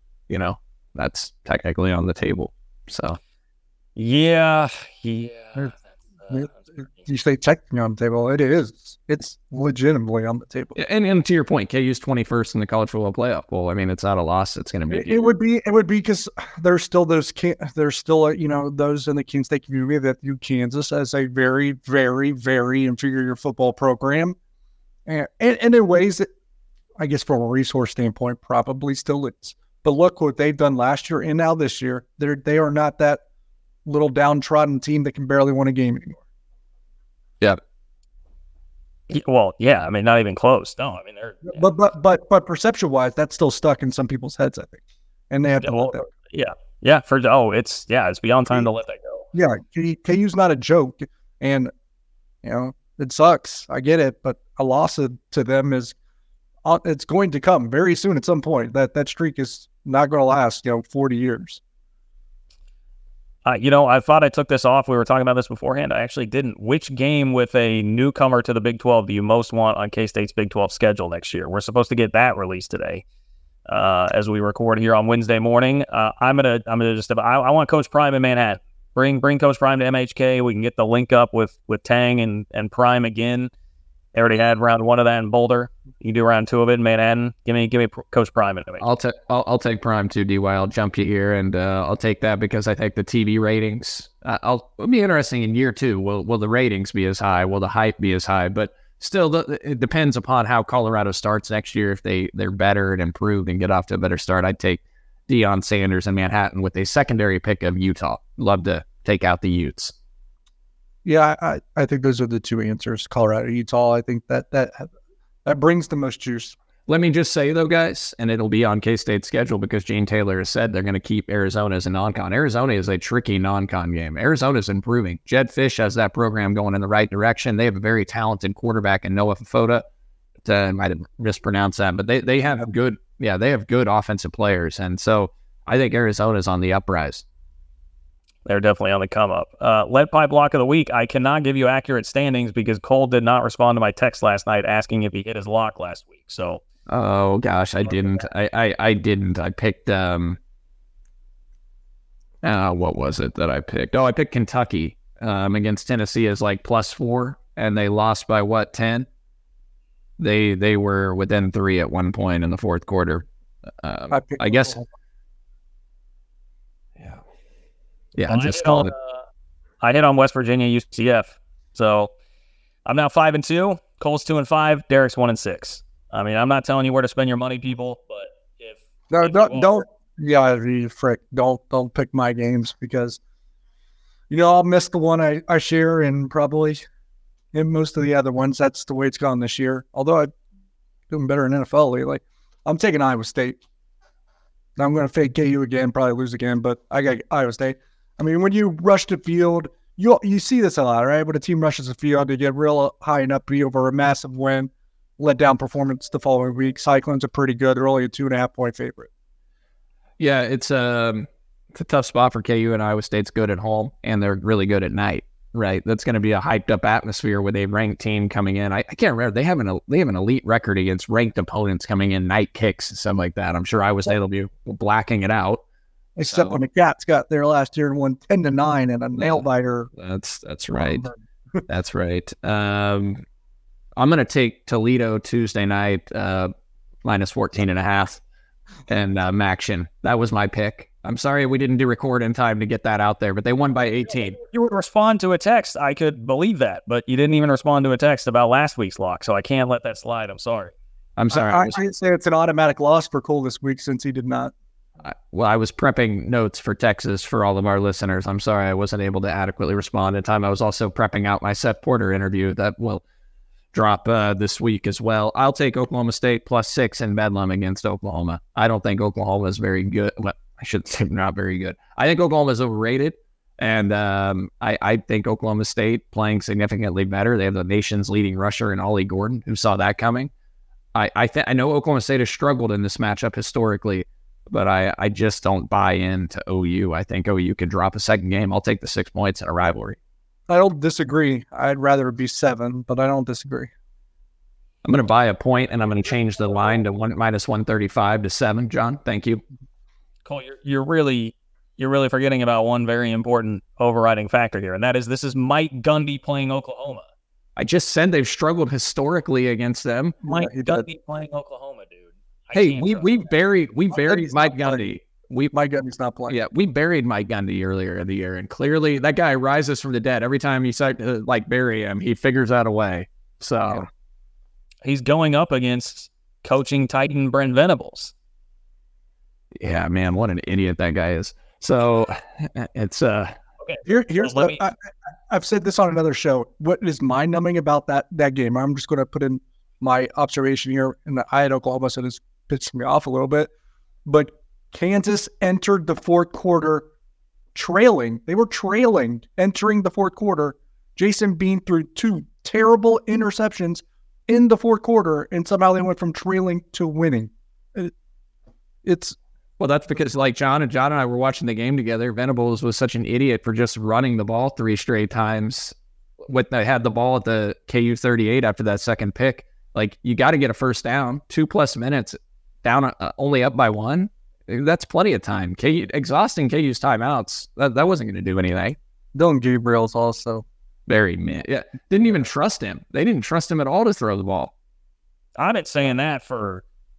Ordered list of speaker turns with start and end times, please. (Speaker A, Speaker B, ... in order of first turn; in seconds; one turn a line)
Speaker A: 0.3-3.2
Speaker B: 4.0-6.8
Speaker C: 6.3-10.8
Speaker A: 10.7-15.3
Speaker C: 14.9-24.4
Speaker C: 25.1-26.3
Speaker C: 27.0-33.2
Speaker C: 33.9-36.2
Speaker B: 39.1-41.6
Speaker C: 41.5-46.1
Speaker B: 45.6-49.3
Speaker C: 49.3-51.7
Speaker C: 52.4-55.9
Speaker C: 56.6-61.6
Speaker B: 63.4-73.0
Speaker B: 73.7-83.5
Speaker B: 84.1-88.8
Speaker A: 88.8-109.9
Speaker C: 111.0-114.9
Speaker C: 115.4-116.5
Speaker A: 116.9-129.8
Speaker A: 130.4-137.2
Speaker B: 138.4-146.6
Speaker A: 146.9-150.4
Speaker A: 152.4-159.1
Speaker A: 160.2-163.2
Speaker A: 163.8-164.8
Speaker C: 164.1-164.8
Speaker A: 168.1-168.9
Speaker B: 168.2-169.2
Speaker B: 169.8-172.1
Speaker B: 172.8-179.8
Speaker C: 179.1-183.2
Speaker C: 184.3-186.8
Speaker C: 187.5-190.3
Speaker C: 191.1-193.6
Speaker C: 194.8-209.1
Speaker A: 210.2-225.6
Speaker C: 226.2-229.9
Speaker A: 226.2-226.6
Speaker A: 230.0-231.1
Speaker C: 230.7-231.1
Speaker A: 231.7-233.2
Speaker A: 233.9-236.5
Speaker A: 237.0-238.2
Speaker A: 238.9-244.4
Speaker B: 244.3-250.7
Speaker A: 251.2-251.8
Speaker C: 251.3-254.5
Speaker A: 255.0-263.0
Speaker A: 263.7-280.3
Speaker A: 280.9-290.0
Speaker C: 290.5-293.7
Speaker A: 294.8-299.4
Speaker B: 300.2-307.0
Speaker A: 307.6-310.2
Speaker C: 310.2-310.9
Speaker B: 310.2-313.3
Speaker A: 312.5-315.5
Speaker C: 313.9-314.8
Speaker C: 315.5-316.4
Speaker A: 316.3-323.9
Speaker B: 324.8-328.1
Speaker A: 329.6-333.3
Speaker B: 333.6-334.6
Speaker C: 333.8-334.8
Speaker C: 335.3-343.5
Speaker C: 344.1-346.9
Speaker C: 347.5-357.9
Speaker C: 358.8-359.1
Speaker A: 359.6-365.7
Speaker A: 366.3-378.8
Speaker C: 379.1-380.4
Speaker A: 380.9-384.5
Speaker B: 385.4-386.6